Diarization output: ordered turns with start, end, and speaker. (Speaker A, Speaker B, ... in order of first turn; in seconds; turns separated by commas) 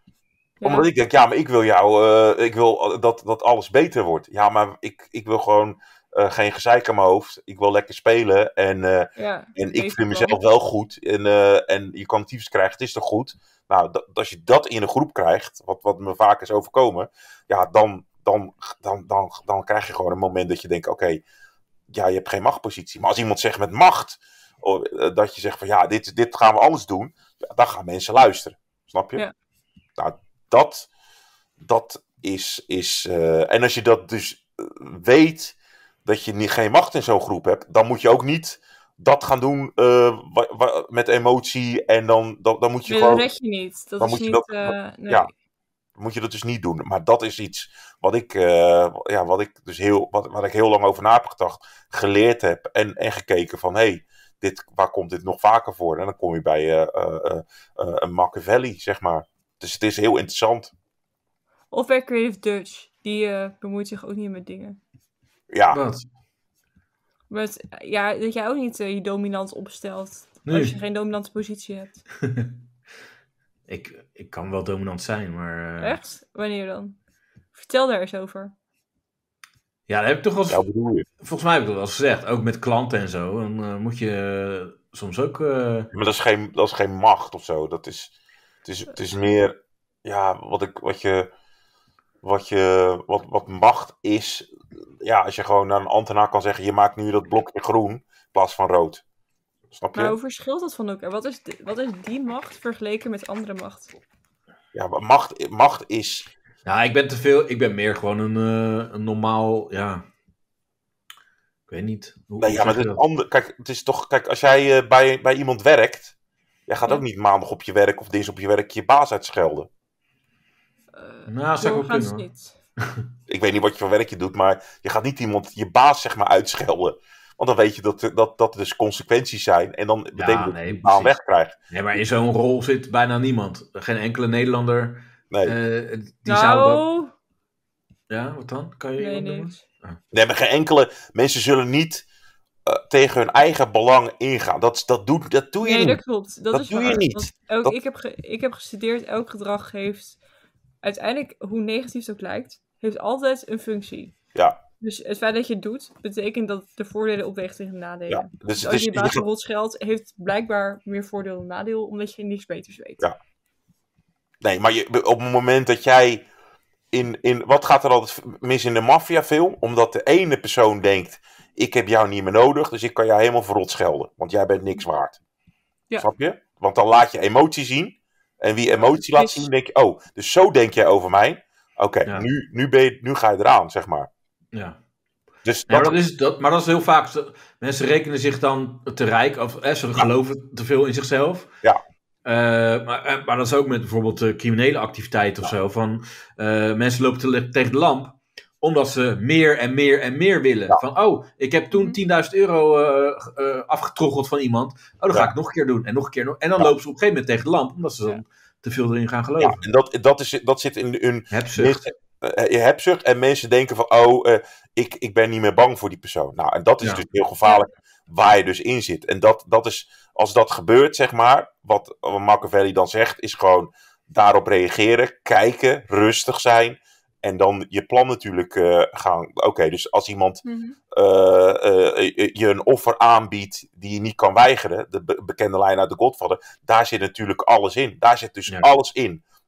Speaker A: 0.6-0.9, Speaker B: 0.6-21.2, Speaker A: 9.2-10.4, Speaker B: 21.9-29.2, Speaker B: 30.0-30.9, Speaker B: 31.6-43.3, Speaker A: 42.9-45.3, Speaker B: 44.0-45.3, Speaker B: 46.0-60.7, Speaker A: 61.7-64.8, Speaker B: 65.5-65.8, Speaker C: 65.7-66.0, Speaker A: 67.3-72.0, Speaker C: 70.5-70.7, Speaker C: 72.2-72.5, Speaker C: 73.7-76.0, Speaker A: 75.8-77.0, Speaker A: 77.5-78.5, Speaker C: 79.9-80.6, Speaker B: 80.5-81.0, Speaker C: 81.2-85.9, Speaker B: 85.9-88.1, Speaker B: 88.6-91.3, Speaker B: 92.2-99.0, Speaker B: 99.7-100.2, Speaker A: 99.9-104.0, Speaker B: 104.7-106.3, Speaker C: 106.6-110.0, Speaker C: 111.7-113.0, Speaker B: 112.4-116.1, Speaker B: 116.7-119.7, Speaker A: 120.9-122.5, Speaker C: 121.3-122.2, Speaker B: 123.3-131.6, Speaker C: 130.2-131.1, Speaker C: 131.7-136.8, Speaker B: 135.3-135.6, Speaker A: 136.3-137.1, Speaker C: 138.1-140.0, Speaker A: 139.0-139.6, Speaker B: 140.1-142.0, Speaker B: 142.7-146.0, Speaker A: 145.6-150.2, Speaker B: 146.5-147.8, Speaker A: 150.8-154.2, Speaker A: 154.8-163.0, Speaker B: 158.1-159.2, Speaker B: 164.4-166.2, Speaker B: 166.9-175.2, Speaker B: 176.0-184.1, Speaker A: 178.8-179.4, Speaker C: 184.5-184.8, Speaker B: 185.4-186.0, Speaker C: 185.7-191.5, Speaker C: 192.2-209.6, Speaker A: 201.7-202.0, Speaker B: 209.4-239.2, Speaker C: 211.3-211.9, Speaker A: 230.4-230.8